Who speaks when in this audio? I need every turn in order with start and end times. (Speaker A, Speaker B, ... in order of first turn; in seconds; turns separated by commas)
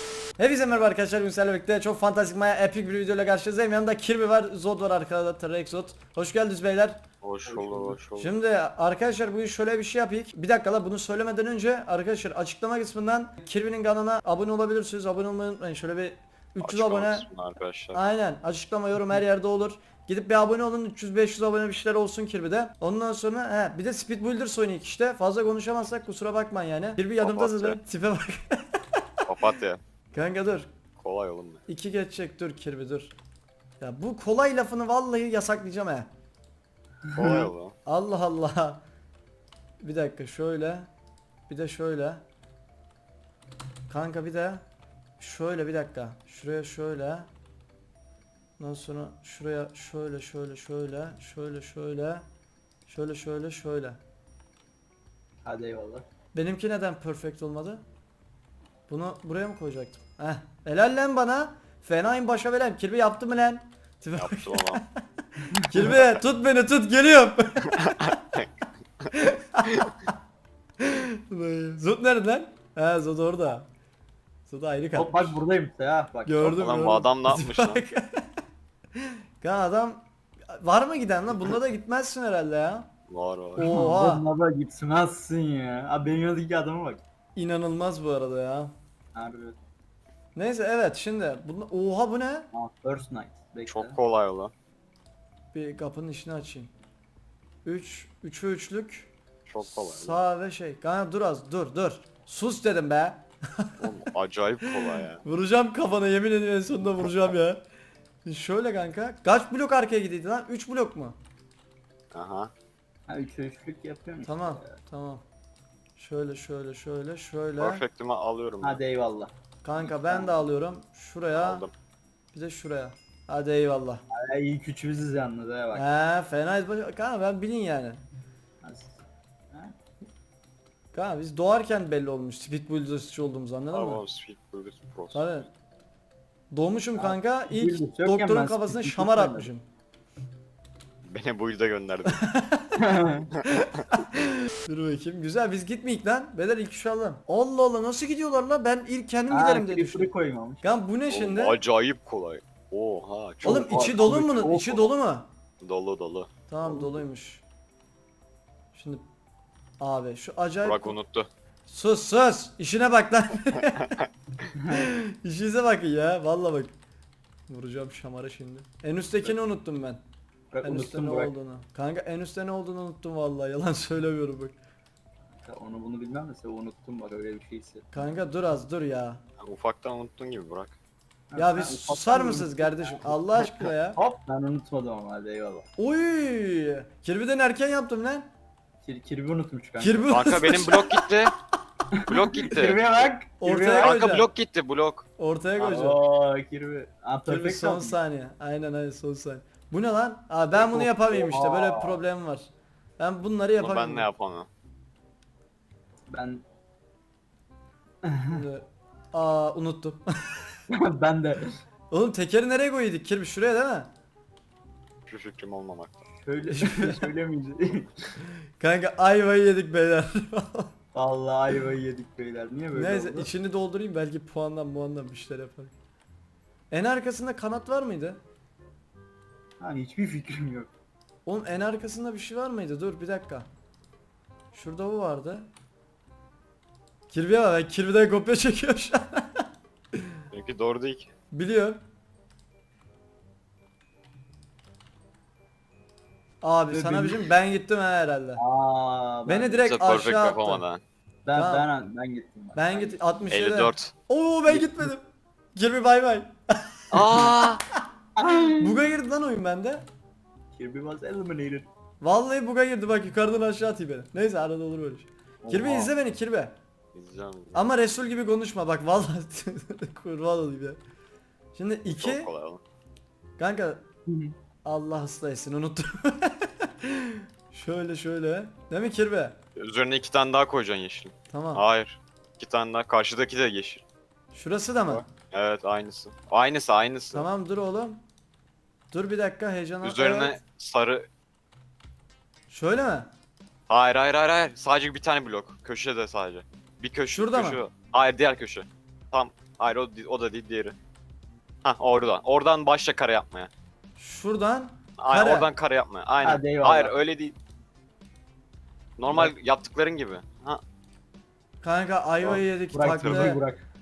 Speaker A: 0.4-7.0, Speaker B: 7.2-8.3, Speaker C: 7.5-8.0, Speaker A: 8.2-17.3, Speaker B: 16.6-18.0, Speaker A: 17.9-29.6, Speaker B: 27.2-27.8, Speaker B: 29.3-29.8, Speaker A: 30.1-30.7, Speaker B: 31.0-31.6, Speaker A: 31.7-33.1, Speaker A: 33.8-36.1, Speaker B: 37.1-37.8, Speaker C: 37.2-37.5, Speaker A: 37.9-38.8, Speaker A: 39.8-40.9, Speaker A: 41.5-42.2, Speaker A: 43.9-44.6, Speaker A: 45.2-47.3, Speaker A: 48.6-52.2, Speaker A: 52.9-54.0, Speaker C: 55.5-56.0, Speaker A: 56.3-57.8, Speaker A: 58.9-68.4, Speaker B: 64.2-64.8, Speaker B: 65.9-66.2, Speaker B: 67.6-68.5, Speaker A: 69.1-69.9, Speaker B: 69.7-69.9, Speaker A: 70.8-73.7, Speaker A: 74.5-75.4, Speaker C: 74.9-76.7, Speaker A: 76.3-78.3, Speaker B: 76.5-77.8, Speaker A: 79.0-82.9, Speaker B: 83.1-83.7, Speaker A: 83.6-84.3, Speaker C: 83.6-87.0, Speaker A: 87.4-88.7, Speaker C: 89.2-89.6, Speaker A: 90.3-92.5, Speaker C: 92.5-94.0, Speaker B: 93.7-94.5, Speaker A: 95.5-96.7, Speaker A: 97.7-99.1, Speaker B: 99.5-100.2, Speaker A: 99.6-104.1, Speaker B: 103.8-105.2, Speaker A: 104.7-107.6, Speaker A: 108.2-111.2, Speaker B: 112.1-112.5, Speaker C: 113.1-114.7, Speaker A: 114.2-115.2, Speaker A: 116.0-117.8, Speaker B: 117.6-118.8, Speaker C: 118.6-120.4, Speaker A: 119.6-121.7, Speaker B: 121.3-121.7, Speaker A: 122.3-124.0, Speaker C: 124.1-125.8, Speaker A: 125.7-128.0, Speaker C: 128.6-129.0, Speaker A: 130.9-134.0, Speaker B: 133.7-135.2, Speaker A: 135.1-135.5, Speaker A: 136.5-139.7, Speaker C: 137.0-139.5, Speaker B: 141.0-142.2, Speaker A: 142.1-151.6, Speaker C: 142.8-143.3, Speaker B: 143.3-144.0, Speaker C: 149.3-150.7, Speaker B: 151.1-154.1, Speaker C: 153.4-154.9, Speaker A: 153.4-155.3, Speaker B: 155.6-156.3, Speaker A: 156.5-157.4, Speaker A: 158.7-159.0, Speaker A: 159.8-161.0, Speaker B: 160.6-161.3, Speaker A: 161.7-164.0, Speaker B: 163.8-164.1, Speaker A: 164.6-166.7, Speaker A: 167.5-170.0, Speaker C: 170.5-171.3, Speaker A: 170.6-174.6, Speaker C: 175.4-177.9, Speaker A: 177.9-179.2, Speaker B: 179.4-180.8, Speaker C: 181.3-185.7, Speaker A: 181.4-184.0, Speaker A: 185.8-188.3, Speaker C: 188.8-190.2, Speaker A: 189.8-191.1, Speaker B: 190.1-191.3, Speaker C: 191.9-194.0, Speaker B: 192.1-193.1, Speaker A: 193.4-194.3, Speaker B: 193.8-195.1, Speaker A: 195.2-196.0, Speaker C: 195.6-198.0, Speaker A: 197.3-202.5, Speaker C: 200.5-202.0, Speaker A: 203.0-204.1, Speaker B: 203.6-204.5, Speaker C: 206.1-206.4, Speaker C: 208.0-208.4, Speaker A: 208.3-210.4, Speaker C: 210.7-211.6, Speaker A: 211.9-213.9, Speaker B: 215.1-216.0, Speaker C: 216.2-218.1, Speaker A: 216.5-217.0, Speaker A: 218.6-220.7, Speaker C: 220.9-223.3, Speaker A: 222.8-225.7, Speaker A: 226.7-228.2, Speaker C: 229.6-230.7, Speaker A: 231.3-233.5, Speaker A: 234.5-235.5, Speaker A: 237.1-239.4, Speaker B: 240.3-241.1, Speaker A: 241.3-241.8, Speaker A: 246.4-248.4, Speaker C: 246.7-247.3, Speaker C: 248.4-249.6, Speaker A: 249.3-250.6, Speaker B: 249.6-250.8, Speaker C: 251.3-253.0, Speaker A: 251.3-251.7, Speaker A: 252.6-257.6, Speaker B: 253.3-253.9, Speaker B: 256.9-257.6, Speaker C: 258.2-258.8, Speaker A: 258.5-259.9, Speaker C: 260.6-261.7, Speaker A: 262.0-266.5, Speaker C: 265.4-265.9, Speaker B: 266.9-267.7, Speaker A: 267.5-270.8, Speaker A: 271.6-272.3, Speaker B: 271.9-272.6, Speaker A: 273.4-273.8, Speaker C: 274.1-274.3, Speaker A: 274.6-279.4, Speaker B: 279.6-283.8, Speaker A: 281.3-281.6, Speaker A: 284.3-285.0, Speaker B: 284.9-287.3, Speaker A: 287.1-288.0, Speaker A: 288.9-290.4, Speaker B: 289.8-291.1, Speaker A: 292.5-293.1, Speaker B: 293.7-300.8, Speaker A: 297.1-297.6, Speaker B: 301.6-303.5, Speaker A: 304.0-305.5, Speaker B: 305.0-307.4, Speaker C: 306.2-306.9, Speaker B: 309.0-310.6, Speaker A: 311.6-313.4, Speaker C: 312.2-313.6, Speaker B: 313.0-313.3